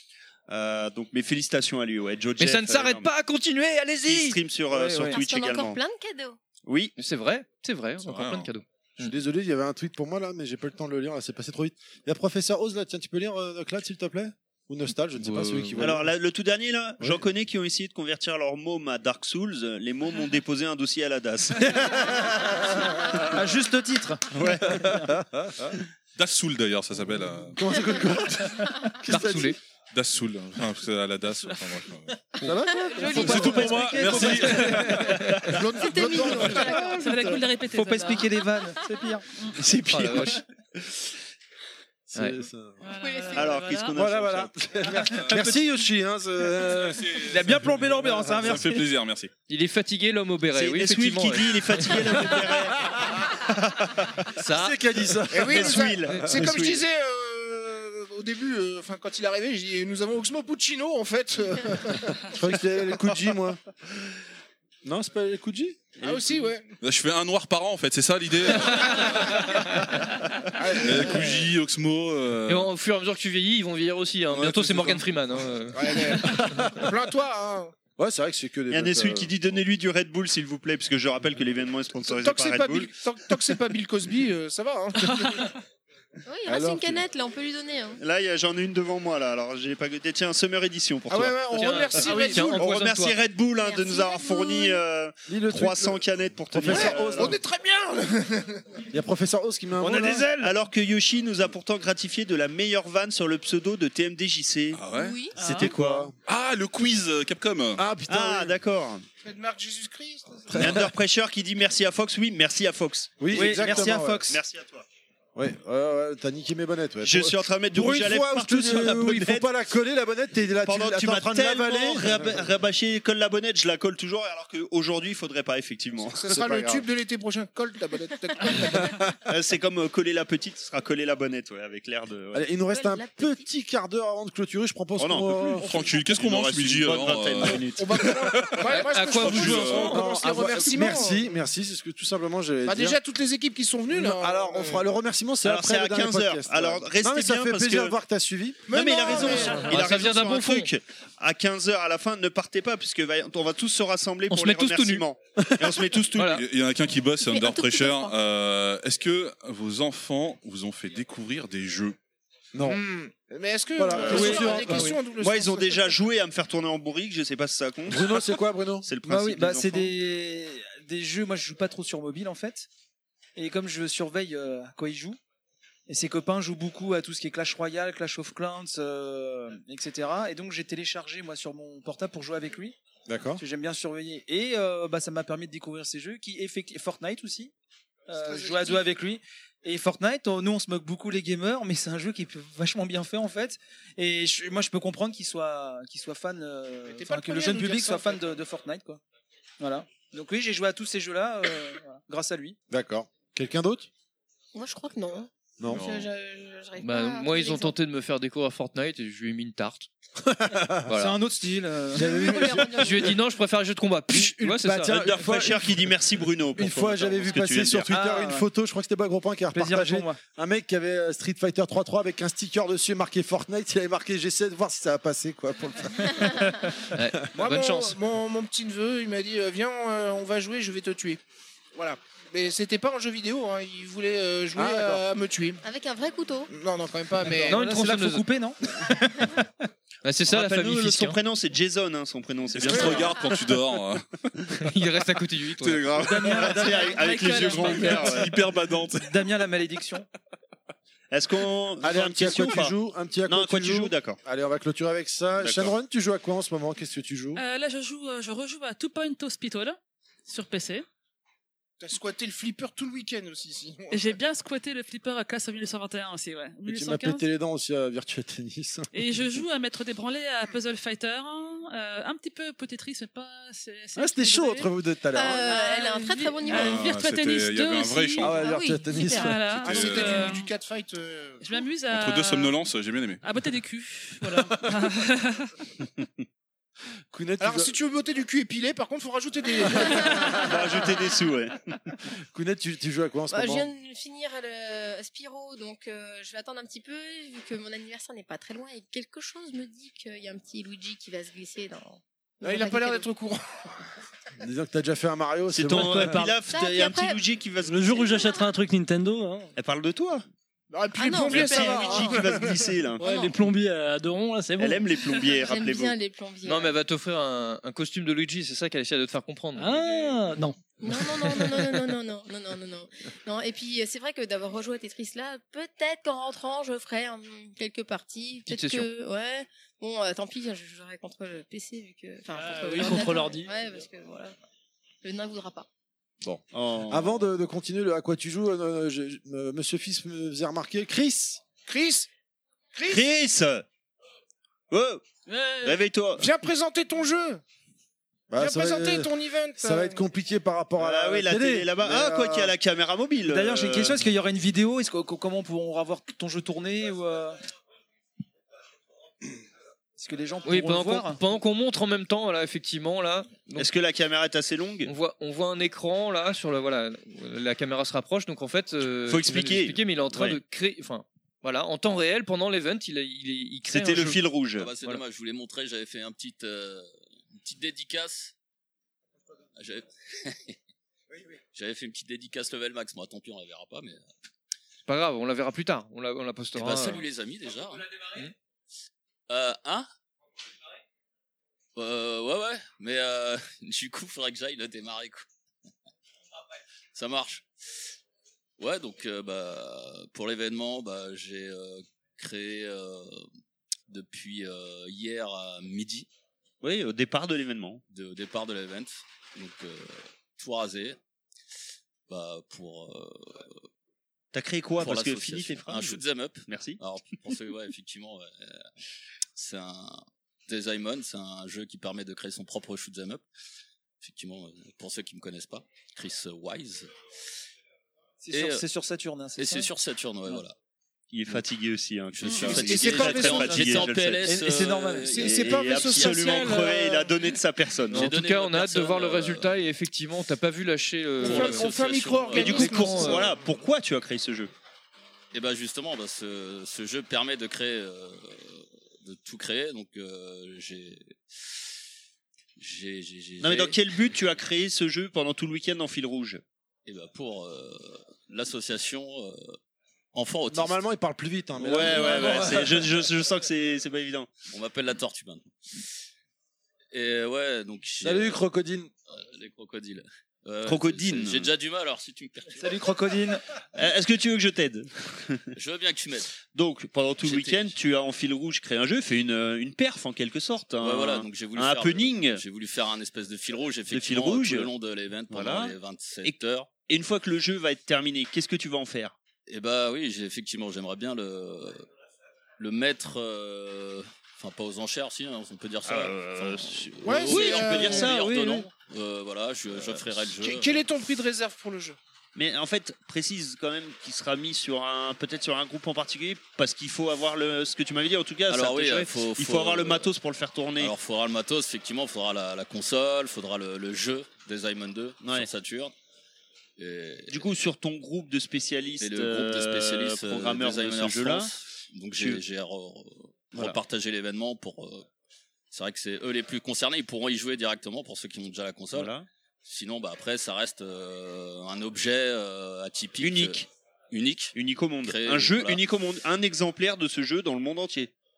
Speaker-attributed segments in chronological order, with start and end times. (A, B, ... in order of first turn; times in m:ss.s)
0:00.5-0:03.1 A
0:02.4-0:04.4 B
0:04.0-0:05.8 A
0:04.7-0:05.2 C
0:05.1-0:06.4 D
0:06.7-0:06.9 A
0:07.0-0:09.2 B
0:08.0-0:08.5 E
0:09.0-0:16.1 F
0:15.2-0:15.9 B
0:15.8-0:22.3 A
0:21.6-0:23.4 F
0:23.3-0:25.0 C
0:24.3-0:25.0 A
0:24.6-0:25.8 F
0:26.2-0:27.6 E
0:27.5-0:29.6 F
0:29.1-0:29.6 B
0:29.9-0:32.2 E
0:32.4-0:35.0 F
0:32.5-0:34.3 D
0:33.1-0:35.1 C
0:33.1-0:35.2 E
0:35.1-0:35.6 A
0:35.5-0:36.9 G
0:35.8-0:37.2 D
0:36.2-0:36.7 F
0:36.8-0:38.5 H
0:37.7-0:39.3 C
0:39.4-0:39.6 H
0:39.7-0:40.3 A
0:39.8-0:40.4 B
0:40.0-0:40.2 F
0:42.1-0:42.8 F
0:42.2-0:42.4 B
0:42.8-0:44.0 H
0:43.0-0:43.6 D
0:43.3-0:44.7 A
0:43.9-0:47.2 F
0:45.1-0:45.5 E
0:46.6-0:49.3 E
0:47.3-0:48.8 C
0:49.5-0:52.1 B
0:50.5-0:54.3 A
0:54.4-0:54.8 B
0:54.5-0:56.5 F
0:55.3-1:02.8 G
0:55.6-0:56.8 A
1:02.2-1:03.6 F
1:04.8-1:05.9 F
1:06.0-1:06.7 G
1:06.0-1:06.4 A
1:06.8-1:09.6 E
1:10.5-1:11.5 G
1:10.8-1:12.7 E
1:12.5-1:16.4 B
1:14.4-1:15.0 F
1:15.7-1:17.8 G
1:16.2-1:16.9 F
1:18.0-1:19.3 F
1:18.7-1:22.9 A
1:22.0-1:25.6 G
1:26.3-1:28.0 D
1:26.5-1:27.0 F
1:28.0-1:37.4 A
1:31.1-1:32.7 G
1:31.5-1:33.2 B
1:33.6-1:34.8 D
1:35.3-1:37.4 F
1:36.6-1:38.6 G
1:38.9-1:40.3 F
1:39.8-1:40.4 I
1:39.9-1:40.5 C
1:40.4-1:44.8 A
1:44.7-1:45.2 E
1:44.9-1:45.3 D
1:45.4-1:46.1 A
1:45.4-1:46.1 F
1:46.3-1:47.8 E
1:47.8-1:48.5 F
1:48.1-1:49.0 A
1:49.2-1:50.8 G
1:50.5-1:50.9 F
1:50.6-1:54.9 A
1:53.2-1:54.3 F
1:53.3-1:54.4 C
1:55.4-2:02.4 F
1:57.0-1:59.5 A
2:00.6-2:06.8 A
2:06.0-2:09.0 G
2:09.3-2:12.4 A
2:12.3-2:15.7 F
2:12.6-2:13.5 D
2:15.0-2:18.1 A
2:15.7-2:20.1 E
2:15.7-2:16.1 G
2:17.7-2:21.3 G
2:18.7-2:20.1 B
2:19.8-2:23.0 F
2:22.6-2:24.9 G
2:23.9-2:28.7 F
2:25.4-2:28.0 A
2:28.7-2:29.7 G
2:28.7-2:36.4 A
2:29.2-2:30.7 B
2:34.3-2:35.1 B
2:35.4-2:35.8 F
2:36.2-2:36.4 B
2:36.3-2:42.0 E
2:37.2-2:38.1 D
2:42.5-2:42.8 F
2:42.6-2:46.0 G
2:43.8-2:45.0 F
2:43.9-2:48.2 A
2:44.1-2:45.0 C
2:47.9-2:48.9 F
2:48.8-2:49.9 A
2:49.0-2:52.7 C
2:53.4-2:55.2 C
2:55.9-3:02.8 C
3:03.1-3:03.4 F
3:03.4-3:07.5 C
3:08.1-3:19.0 C
3:08.1-3:08.8 G
3:16.9-3:18.3 G
3:19.6-3:22.6 C
3:22.7-3:23.9 F
3:24.5-3:27.8 D
3:25.6-3:25.9 F
3:25.7-3:26.1 E
3:26.8-3:29.9 B
3:30.2-3:30.9 F
3:30.9-3:31.2 B
3:30.9-3:32.6 C
3:31.9-3:33.2 F
3:32.0-3:33.1 D
3:32.8-3:35.0 B
3:34.1-3:35.7 F
3:34.9-3:37.9 A
3:36.5-3:46.8 F
3:37.9-3:38.5 C
3:39.5-3:40.2 C
3:46.2-3:46.5 D
3:46.9-3:48.0 B
3:47.3-3:51.2 G
3:51.7-3:55.6 G
3:54.6-3:55.0 F
3:55.6-3:56.5 D
3:56.5-3:57.6 G
3:57.3-3:59.3 C
3:57.5-3:58.3 B
4:00.0-4:01.2 B
4:00.3-4:03.2 A
4:02.6-4:04.7 E
4:02.7-4:03.0 G
4:04.6-4:05.9 B
4:05.6-4:06.6 E
4:05.9-4:07.0 C
4:06.2-4:08.4 A
4:06.5-4:08.2 H
4:07.6-4:09.2 E
4:07.7-4:08.2 C
4:09.0-4:10.1 C
4:11.1-4:12.8 A
4:11.8-4:17.4 F
4:13.3-4:14.2 A
4:17.4-4:20.8 H
4:21.8-4:24.2 G
4:23.9-4:27.2 H
4:26.7-4:28.9 F
4:28.9-4:34.7 H
4:34.0-4:35.6 F
4:35.1-4:36.9 D
4:35.2-4:40.5 H
4:36.5-4:38.4 E
4:38.2-4:39.4 F
4:38.4-4:39.2 D
4:39.5-4:40.3 E
4:39.6-4:41.5 G
4:41.4-4:42.6 H
4:41.9-4:43.2 E
4:43.2-4:45.6 H
4:44.4-4:44.8 F
4:45.8-4:46.1 A
4:47.1-4:47.8 F
4:47.4-4:50.9 G
4:50.4-4:51.6 A
4:52.3-4:53.7 F
4:53.3-5:03.1 D
5:02.4-5:03.7 G
5:04.4-5:06.3 F
5:05.5-5:08.4 A
5:06.5-5:07.2 D
5:07.6-5:09.5 I
5:08.1-5:08.4 D
5:09.6-5:10.2 A
5:10.7-5:12.8 G
5:11.0-5:12.3 D
5:11.3-5:13.0 A
5:13.0-5:14.9 I
5:13.0-5:13.4 D
5:14.6-5:16.0 A
5:15.4-5:16.8 D
5:16.4-5:19.9 B
5:19.6-5:20.6 I
5:20.8-5:34.4 D
5:28.5-5:28.9 B
5:32.4-5:33.6 I
5:35.0-5:35.7 D
5:36.2-5:41.4 F
5:36.5-5:37.2 A
5:41.7-5:42.1 G
5:42.7-5:43.1 G
5:42.9-5:43.6 A
5:44.7-5:45.0 A
5:45.3-5:45.8 H
5:45.6-5:46.4 A
5:46.2-5:47.4 G
5:48.3-5:52.5 F
5:48.4-5:50.0 G
5:50.8-5:54.0 A
5:53.2-5:57.4 C
6:00.0-6:01.2 C
6:00.4-6:03.7 B
6:03.6-6:04.9 A
6:04.9-6:14.2 B
6:09.0-6:10.4 A
6:13.7-6:14.7 A
6:14.6-6:18.3 J
6:19.6-6:20.6 J
6:21.5-6:24.0 J
6:24.9-6:27.0 B
6:26.6-6:27.9 J
6:29.3-6:29.9 J
6:31.8-6:35.3 J
6:37.0-6:37.5 J
6:38.6-6:43.3 J
6:43.9-6:46.1 J
6:46.6-6:47.8 A
6:47.9-6:51.0 J
6:52.1-6:53.7 J
6:54.3-6:56.8 A
6:54.8-6:58.7 J
6:59.4-7:03.2 J
7:04.0-7:06.9 J
7:08.2-7:09.7 C
7:08.3-7:08.7 J
7:09.4-7:10.6 J
7:11.1-7:14.4 A
7:12.2-7:16.6 J
7:12.2-7:12.6 H
7:12.7-7:16.7 C
7:15.1-7:18.1 A
7:15.1-7:17.2 G
7:17.9-7:19.6 J
7:17.9-7:21.7 B
7:21.2-7:23.4 G
7:21.2-7:22.9 J
7:22.3-7:23.3 B
7:22.5-7:24.5 A
7:25.3-7:31.2 J
7:32.6-7:33.8 J
7:33.4-7:36.4 A
7:36.9-7:39.6 J
7:40.1-7:40.9 J
7:40.5-7:42.8 F
7:41.6-7:44.3 A
7:41.6-7:42.6 J
7:44.5-7:45.9 J
7:46.9-7:48.4 J
7:48.0-7:48.9 F
7:49.1-7:52.8 J
7:50.6-7:51.5 A
7:52.6-7:53.4 C
7:53.8-7:55.5 A
7:55.5-7:56.4 J
7:56.5-8:02.4 A
7:57.2-7:57.8 J
8:00.8-8:06.7 J
8:03.9-8:04.7 A
8:05.3-8:06.3 A
8:06.9-8:09.1 A
8:09.5-8:11.9 J
8:12.6-8:20.8 J
8:15.8-8:18.7 A
8:17.0-8:18.2 G
8:20.4-8:22.0 G
8:22.4-8:31.0 A
8:28.5-8:30.1 J
8:30.8-8:35.9 J
8:35.2-8:35.5 A
8:36.8-8:37.5 J
8:37.3-8:41.5 A
8:39.0-8:45.1 J
8:42.2-8:42.4 A
8:45.7-8:55.8 J
8:48.9-8:49.3 A
8:53.2-8:53.7 A
8:54.6-8:58.1 A